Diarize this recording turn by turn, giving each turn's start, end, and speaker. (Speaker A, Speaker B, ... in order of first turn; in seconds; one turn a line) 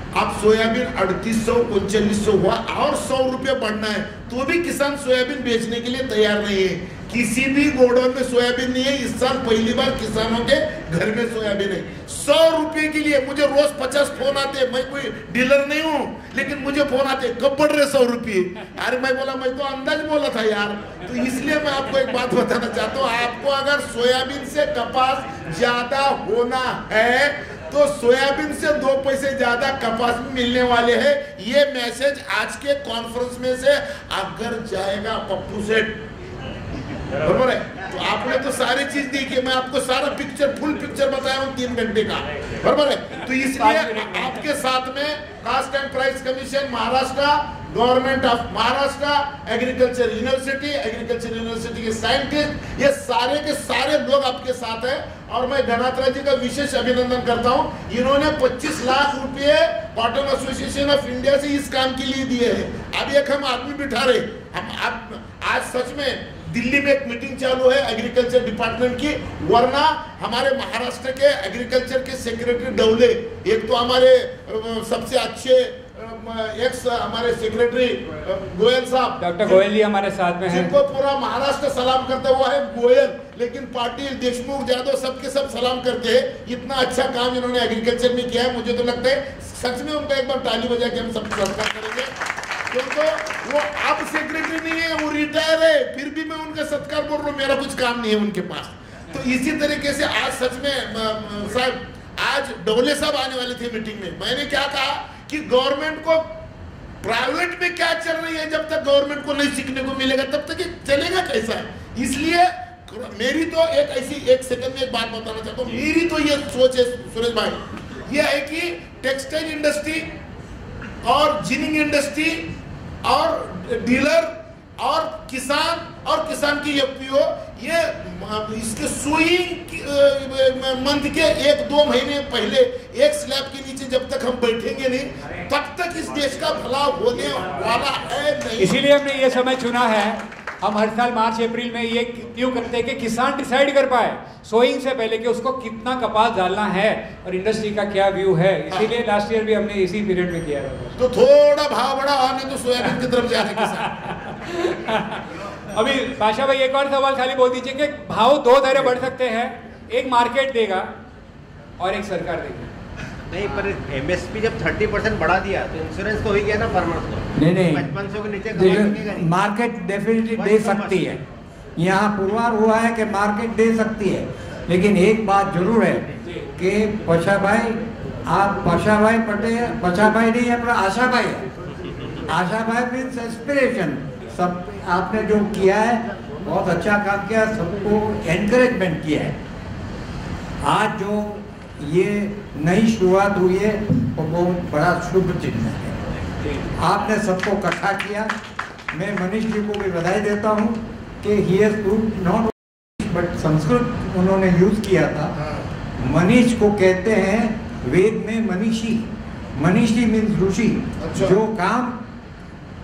Speaker A: 0.1-36.0
Speaker A: 37.2-79.6
Speaker B: 43.5-44.4
Speaker B: 79.2-80.7
Speaker A: 80.5-92.1
Speaker A: 92.7-106.2
Speaker A: 107.0-120.1
Speaker A: 121.0-122.5
Speaker A: 123.0-138.8
Speaker B: 138.6-151.0
Speaker A: 151.0-153.9
Speaker B: 153.8-160.9
Speaker B: 161.8-162.7
Speaker C: 163.3-169.3
Speaker D: 167.4-167.8
Speaker D: 168.5-171.2
Speaker C: 170.3-171.1
Speaker D: 171.8-176.0
Speaker D: 176.6-181.4
Speaker D: 182.3-189.3
Speaker D: 190.6-196.0
Speaker D: 196.8-198.3
Speaker D: 198.9-205.3
Speaker D: 206.0-212.0
Speaker A: 211.0-211.4